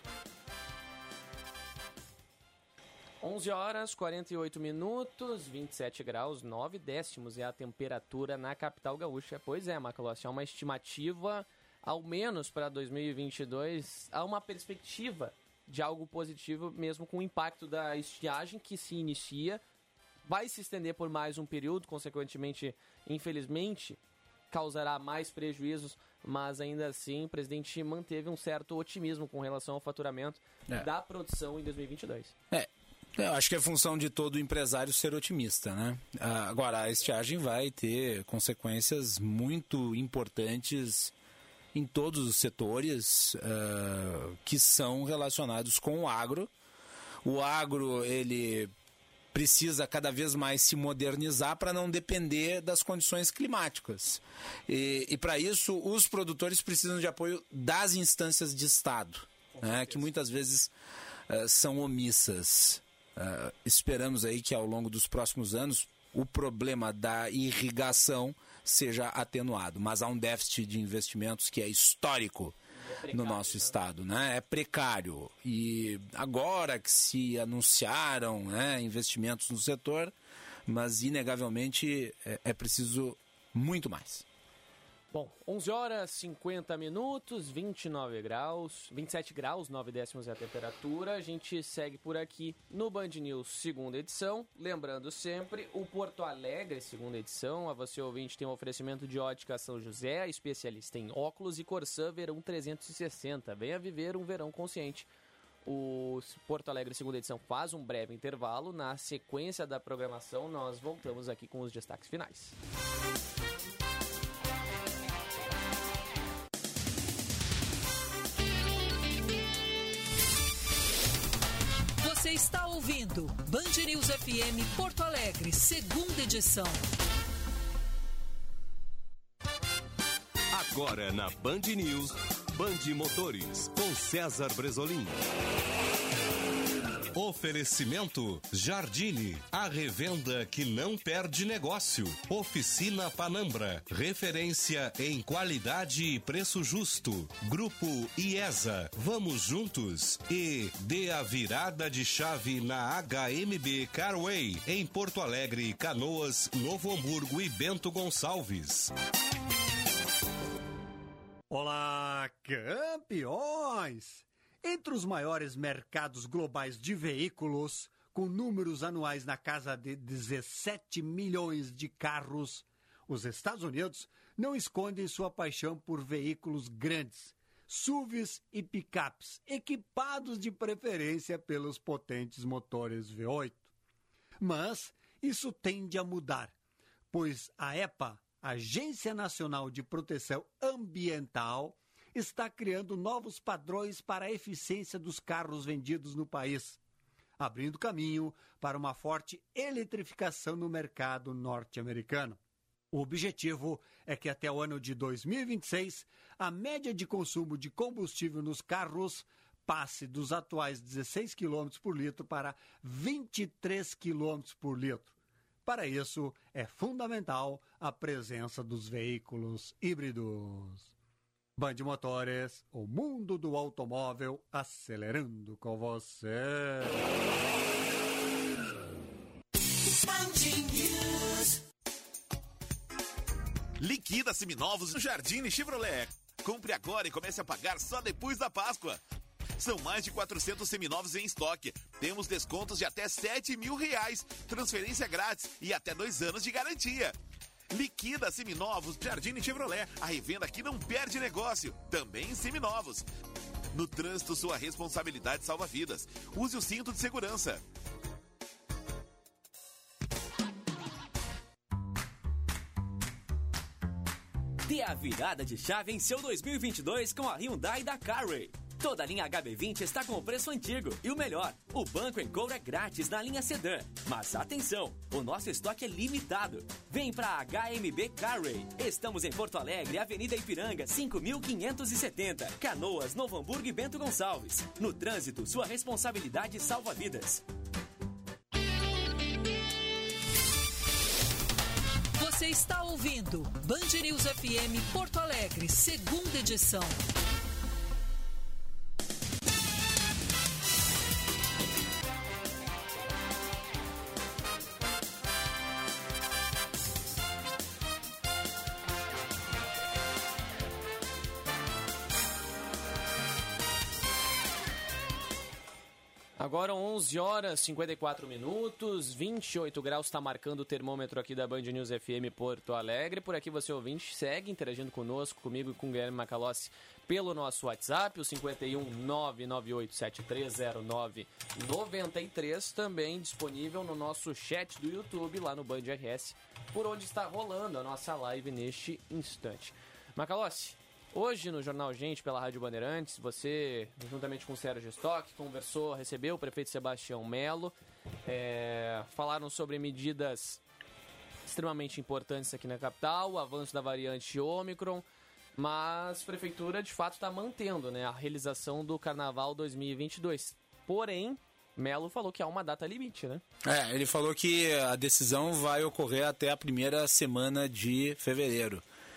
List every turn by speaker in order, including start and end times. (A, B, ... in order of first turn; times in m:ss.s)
0:03.2-0:19.6 A
0:20.2-0:24.0 A
0:24.5-0:32.3 A
0:32.5-0:41.1 B
0:41.7-0:46.5 B
0:47.2-0:48.7 B
0:49.3-1:00.7 B
0:59.6-1:00.0 A
1:01.3-1:12.6 B
1:12.8-1:13.8 A
1:13.1-1:20.1 B
1:20.7-1:24.2 B
1:25.1-1:45.1 A
1:45.6-1:52.5 A
2:02.0-2:06.8 C
2:10.5-2:15.2 D
2:17.1-2:38.9 D
2:41.5-3:03.7 E
3:04.4-3:06.5 E
3:07.1-3:16.8 E
3:17.4-3:22.4 E
3:22.9-3:35.1 E
3:35.6-3:40.9 E
3:41.6-3:47.0 E
3:53.8-3:59.0 F
3:59.6-4:07.2 F
4:07.7-4:13.0 F
4:13.7-4:17.6 F
4:24.7-4:47.4 G
4:52.2-4:57.0 C
5:16.4-5:47.7 A
5:48.2-5:50.6 A
5:51.5-5:55.0 A
5:55.6-6:03.4 A
6:03.6-6:08.8 B